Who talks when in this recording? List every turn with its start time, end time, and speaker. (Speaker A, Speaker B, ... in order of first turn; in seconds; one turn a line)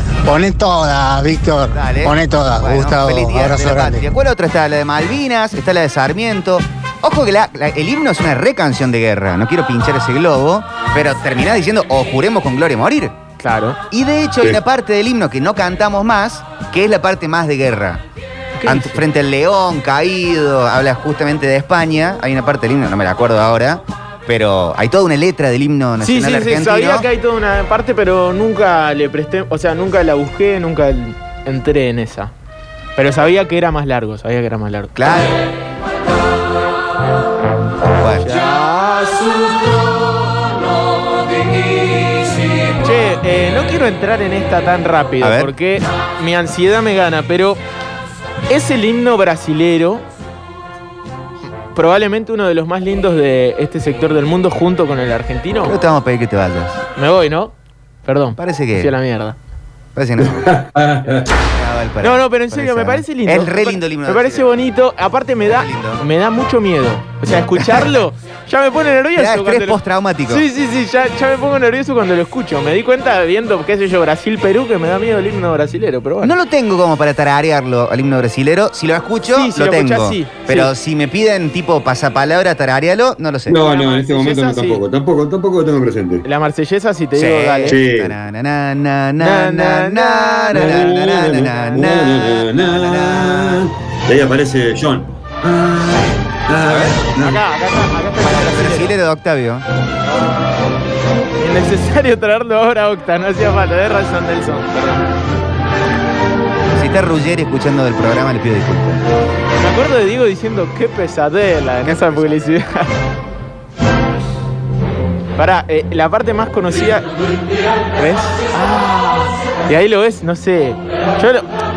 Speaker A: 0.2-4.0
Speaker B: 1.7-13.2
Speaker C: 13.4-13.8
Speaker B: 13.9-18.0
Speaker C: 18.6-19.0
Speaker B: 18.6-27.1
Speaker C: 26.0-32.3
Speaker C: 33.0-35.0
Speaker B: 35.0-35.4
Speaker B: 38.0-38.3
Speaker C: 38.2-39.7
Speaker C: 42.8-47.6
Speaker B: 45.2-45.5
Speaker C: 48.5-50.0
Speaker C: 51.7-55.8
Speaker B: 55.6-56.8
Speaker C: 57.0-57.5
Speaker C: 58.0-59.4
Speaker B: 58.4-58.9
Speaker B: 59.9-60.6
Speaker D: 60.2-61.3
Speaker B: 61.4-64.5
Speaker C: 62.0-76.3
Speaker B: 65.4-66.0
Speaker B: 67.5-67.9
Speaker B: 69.1-70.5
Speaker B: 76.2-83.6
Speaker C: 79.3-80.7
Speaker D: 83.5-86.2
Speaker C: 83.6-84.8
Speaker C: 86.2-87.8
Speaker B: 87.2-93.7
Speaker D: 87.7-88.1
Speaker C: 89.2-92.0
Speaker D: 90.5-97.4
Speaker B: 96.7-97.0
Speaker C: 97.0-98.9
Speaker B: 98.2-99.7
Speaker C: 101.4-105.0
Speaker B: 106.7-109.0
Speaker C: 109.6-112.9
Speaker B: 111.8-112.6
Speaker C: 115.4-117.1
Speaker C: 117.9-121.5